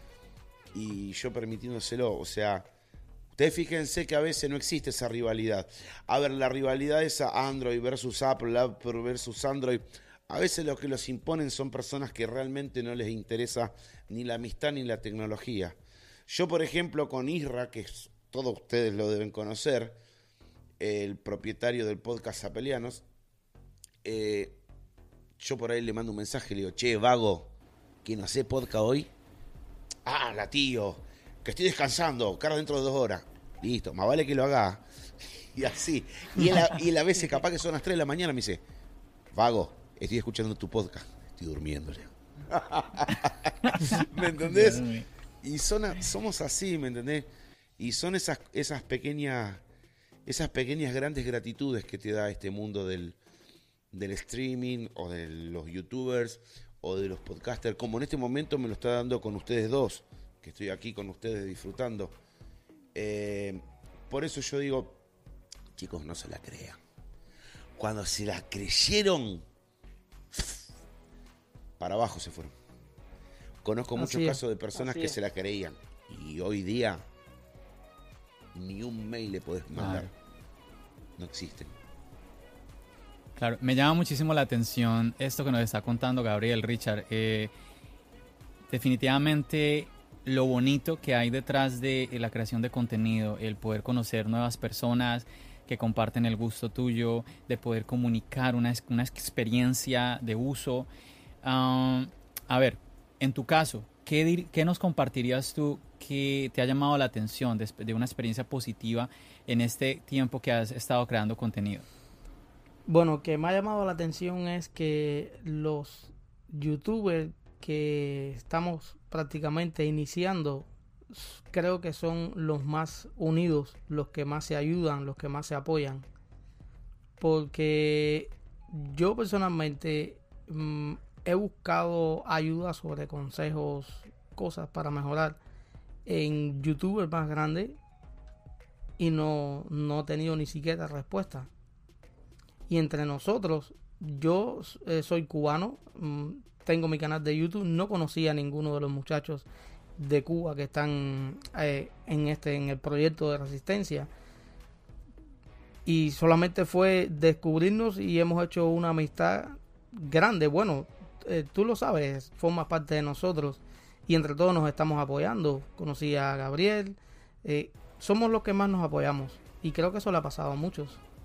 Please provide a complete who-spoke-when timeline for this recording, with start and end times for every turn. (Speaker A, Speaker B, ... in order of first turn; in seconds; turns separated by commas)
Speaker A: 0.7-2.7, Speaker A: 3.3-20.0, Speaker A: 20.8-23.0, Speaker A: 24.0-24.6, Speaker A: 25.4-27.5, Speaker A: 28.0-29.1, Speaker A: 30.0-38.6, Speaker A: 39.3-44.9, Speaker B: 43.6-45.0, Speaker A: 45.4-49.6, Speaker A: 50.2-53.2, Speaker A: 53.9-62.2, Speaker A: 62.9-65.0, Speaker A: 65.7-66.8, Speaker A: 67.7-69.4, Speaker A: 70.3-70.6, Speaker A: 71.8-72.5, Speaker A: 73.6-77.0, Speaker C: 74.0-75.1, Speaker A: 78.5-80.1, Speaker B: 79.7-80.1, Speaker A: 81.2-81.7, Speaker B: 83.3-87.5, Speaker B: 88.7-100.9, Speaker B: 101.4-111.8, Speaker C: 112.9-126.0, Speaker C: 127.2-135.4, Speaker C: 136.1-137.8, Speaker C: 139.0-141.5, Speaker C: 142.7-149.4, Speaker C: 150.0-154.1, Speaker C: 155.8-171.0